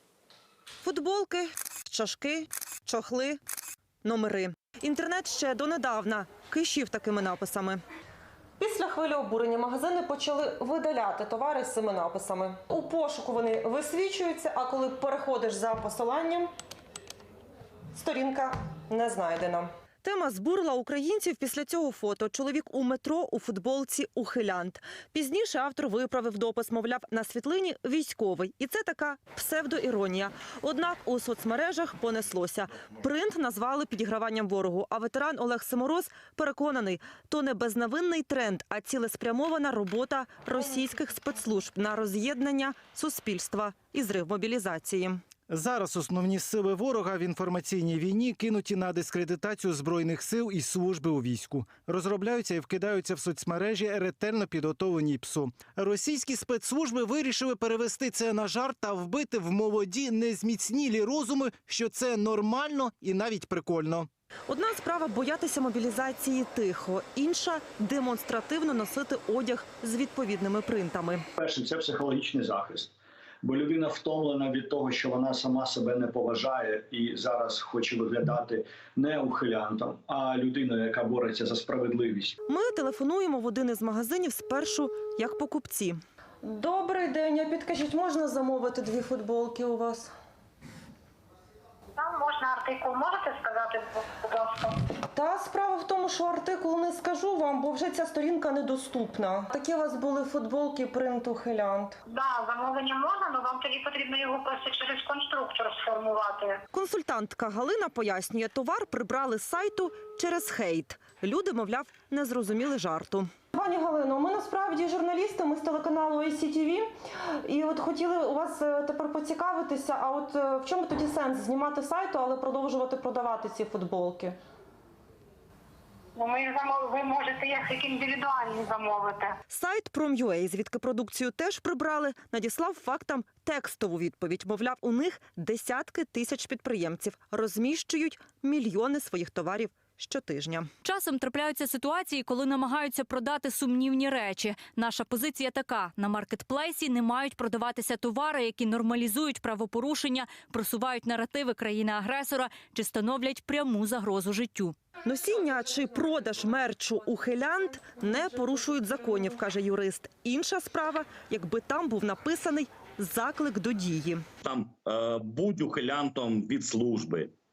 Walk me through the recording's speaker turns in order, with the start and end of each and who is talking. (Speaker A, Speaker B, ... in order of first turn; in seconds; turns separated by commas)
Speaker A: 0.8-3.4, Speaker A: 4.0-7.8, Speaker A: 8.6-16.5, Speaker A: 17.9-45.2, Speaker B: 45.5-64.1, Speaker A: 64.5-71.2, Speaker C: 71.4-82.3, Speaker A: 82.5-90.1, Speaker D: 92.0-94.8, Speaker A: 95.1-102.0, Speaker D: 102.1-106.6, Speaker A: 106.7-116.9, Speaker A: 117.5-124.4, Speaker D: 126.2-129.4, Speaker A: 129.5-140.7, Speaker E: 140.8-154.8, Speaker A: 155.0-164.2, Speaker F: 164.4-167.3